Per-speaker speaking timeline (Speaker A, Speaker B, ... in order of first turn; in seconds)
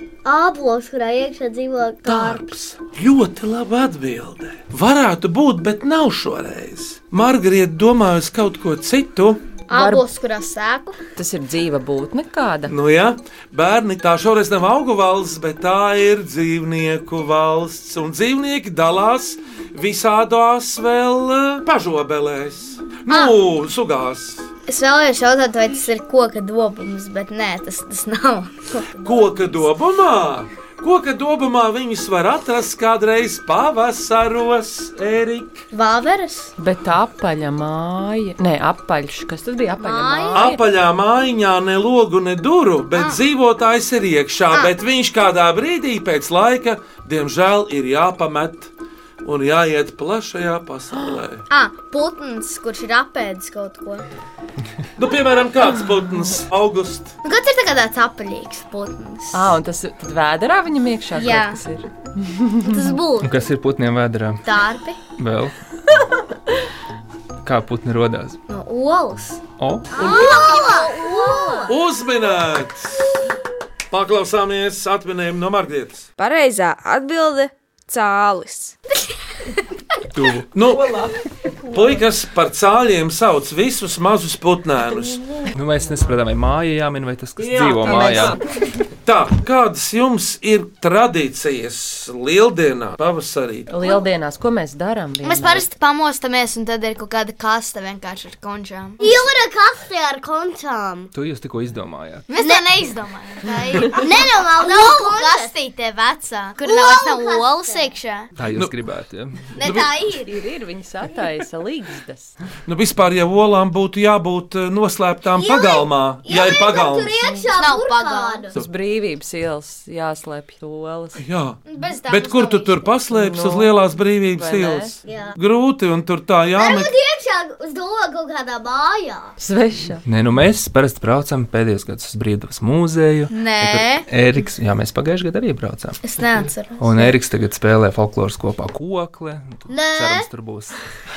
Speaker A: 0.2-2.5, 62.6-63.4, 70.0-71.8, 99.0-101.1, 102.4-102.6, 103.9-105.5, 106.6-107.9, 115.4-118.5, 125.0-125.4, 126.5-129.3, 139.7-140.3
Speaker B: 2.0-9.4, 12.7-24.5, 29.0-35.6, 40.3-48.7, 49.2-51.4, 55.0-57.1, 71.7-73.0, 73.9-76.1, 80.5-81.1, 81.7-85.3, 87.6-88.3, 89.0-93.7, 109.6-109.9, 112.7-117.4, 121.2-126.9
Speaker C: 9.7-11.0, 23.1-23.4, 24.7-29.7, 35.7-36.5, 39.8-40.5, 51.5-54.0, 57.2-59.6, 61.2-61.6, 64.5-65.0, 68.5-71.7, 95.2-99.1, 102.3-108.3, 109.6-110.3, 117.6-118.5, 121.7-123.0, 133.3-134.1, 136.0-137.1
Speaker D: 9.7-10.1, 11.2-12.7, 36.6-40.6, 59.3-63.0, 87.8-88.3, 93.7-95.7, 110.3-112.4, 118.5-121.2, 123.1-123.7, 124.3-125.0, 129.4-130.0
Speaker E: 63.2-64.4, 65.2-65.5, 67.4-68.4, 69.6-70.0, 80.1-80.5, 85.5-88.4, 101.1-102.3, 108.4-109.6, 130.1-136.0, 136.8-140.8
Speaker F: 76.2-78.8